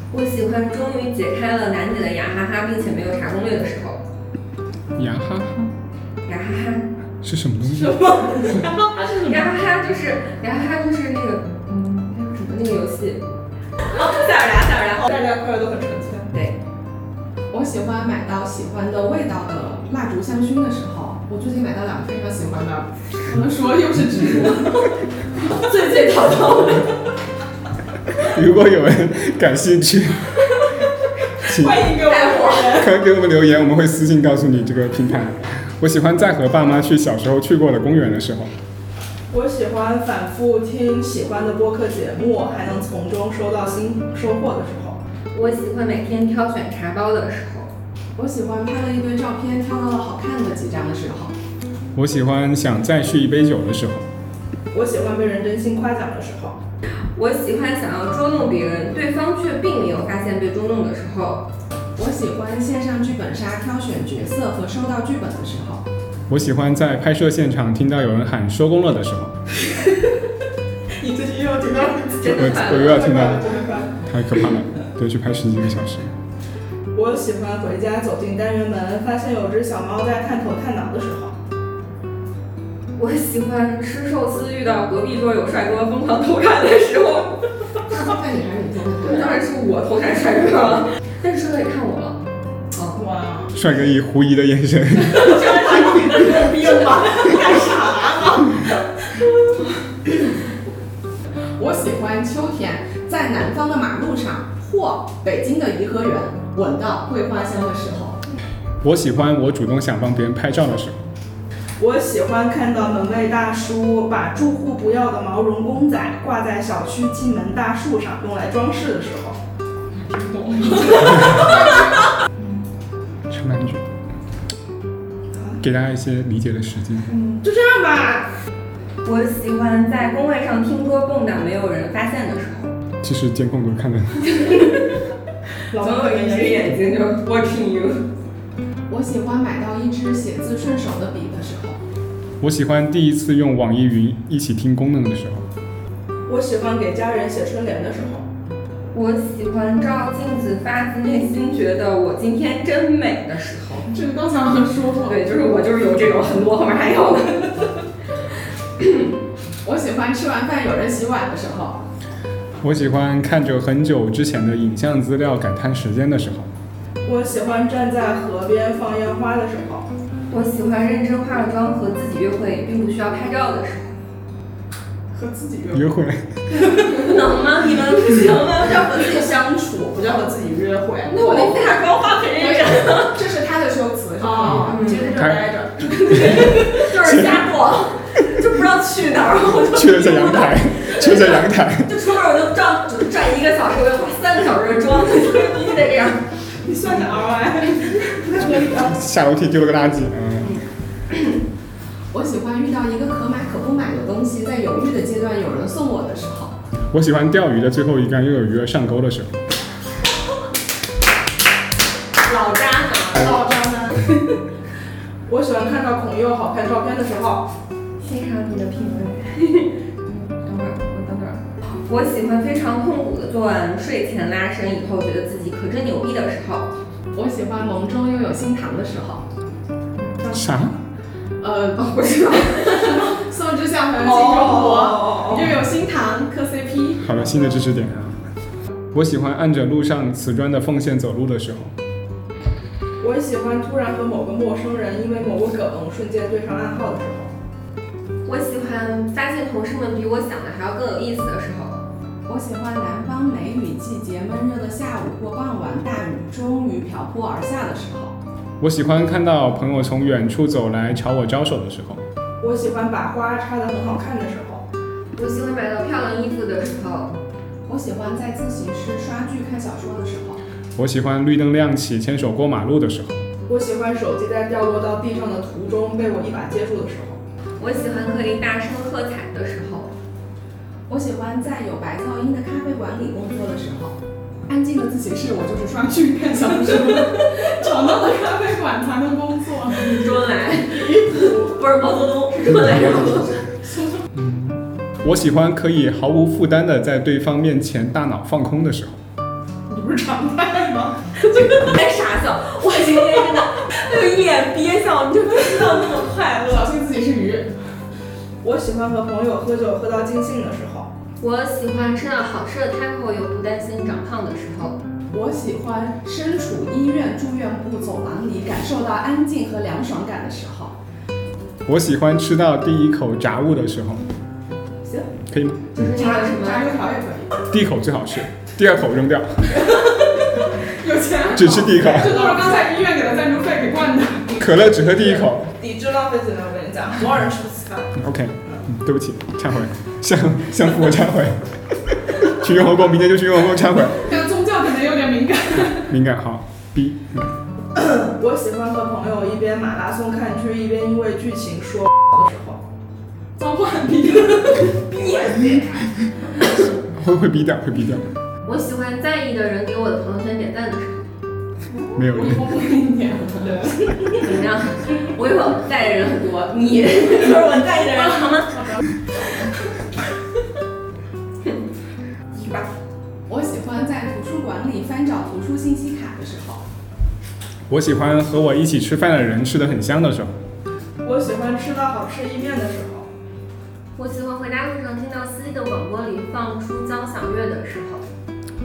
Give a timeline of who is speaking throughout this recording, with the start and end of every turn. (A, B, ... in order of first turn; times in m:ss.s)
0:00.1-0:04.0 A
0:04.9-0:05.7 B
0:06.2-0:06.9 A
0:07.2-0:08.0 B
0:07.7-0:09.5 C
0:09.0-0:13.2 A
0:13.8-0:15.1 A
0:15.0-0:16.3 C
0:16.3-0:16.6 A
0:17.5-0:25.0 D
0:25.5-0:27.0 A
0:28.1-0:30.4 B
0:31.4-0:32.0 B
0:31.4-0:32.9 C
0:31.9-0:32.9 A
0:32.7-0:38.5 B
0:39.3-0:45.0 C
0:45.3-0:47.7 A
0:48.2-0:51.4 D
0:51.9-0:54.0 B
0:54.7-0:56.6 C
0:57.1-1:01.4 A
1:02.0-1:05.8 D
1:06.3-1:09.4 B
1:11.0-1:14.0 C
1:12.2-1:13.0 A
1:12.2-1:13.4 B
1:14.0-1:16.1 B
1:16.9-1:21.4 C
1:23.0-1:27.8 A
1:27.9-1:29.4 D
1:29.0-1:32.2 A
1:32.7-1:33.0 A
1:33.0-1:33.5 C
1:33.5-1:35.5 B
1:35.0-1:39.7 A
1:36.2-1:38.4 C
1:41.6-1:48.2 D
1:48.8-1:51.0 B
1:51.8-1:59.4 C
2:00.0-2:01.9 D
2:00.8-2:01.6 A
2:02.4-2:02.6 C
2:03.3-2:03.8 B
2:05.6-2:07.1 B
2:07.4-2:08.3 C
2:09.0-2:12.7 A
2:13.0-2:14.4 B
2:14.2-2:15.0 A
2:15.7-2:16.7 C
2:15.7-2:18.0 A
2:18.9-2:21.8 D
2:22.4-2:25.5 B
2:26.2-2:28.2 C
2:28.9-2:33.9 A
2:33.9-2:35.2 D
2:35.0-2:37.7 A
2:39.6-2:41.8 D
2:42.6-2:46.5 B
2:47.0-2:49.9 C
2:50.3-2:53.9 A
2:55.1-2:55.8 D
2:55.7-2:56.3 B
2:56.6-2:59.2 A
2:56.7-2:57.0 C
2:58.8-3:01.3 C
3:01.0-3:03.2 A
3:01.2-3:01.7 D
3:02.4-3:04.8 D
3:04.2-3:06.9 C
3:04.6-3:05.2 A
3:05.9-3:16.2 A
3:09.7-3:11.9 B
3:16.6-3:19.0 C
3:18.6-3:20.6 B
3:22.1-3:26.6 D
3:26.9-3:29.3 B
3:32.2-3:33.2 A
3:33.1-3:34.2 C
3:35.3-3:37.5 C
3:38.0-3:46.7 A
3:47.1-3:49.2 D
3:50.0-3:50.2 A
3:50.3-3:50.8 B
3:51.4-3:57.6 D
3:51.8-3:53.1 A
3:54.0-3:55.5 C
3:57.0-3:58.2 B
3:58.9-4:01.7 B
4:03.0-4:07.3 C
4:08.2-4:11.8 A
4:12.3-4:18.2 D
4:18.6-4:22.0 B
4:22.4-4:24.6 C
4:25.2-4:27.1 A
4:27.6-4:30.4 D
4:30.7-4:33.2 B
4:33.5-4:37.2 C
4:37.6-4:39.9 A
4:40.9-4:50.1 D
4:49.7-4:53.4 A
4:50.9-4:51.4 C
4:53.7-4:53.9 D
4:54.1-4:59.0 B
4:59.7-5:01.0 C
5:01.2-5:06.2 A
5:06.2-5:07.5 D
5:08.4-5:10.9 C
5:11.2-5:14.8 A
5:15.1-5:20.8 D
5:21.6-5:24.0 B
5:25.3-5:25.8 B
5:25.7-5:26.8 A
5:25.9-5:27.4 D
5:27.5-5:29.6 B
5:29.6-5:34.5 D
5:31.3-5:32.3 B
5:34.4-5:35.5 B
5:34.8-5:37.9 C
5:38.0-5:44.1 B
5:43.9-5:45.9 D
5:45.7-5:47.3 B
5:47.7-5:52.6 C
5:53.4-5:54.8 D
5:54.9-5:55.8 C
5:56.7-5:58.1 B
5:58.4-6:01.1 A
6:01.9-6:02.5 B
6:02.0-6:04.1 D
6:04.2-6:08.8 A
6:08.5-6:08.8 D
6:12.4-6:12.6 A
6:13.3-6:16.6 D
6:17.7-6:20.3 B
6:21.0-6:23.1 C
6:24.0-6:28.0 A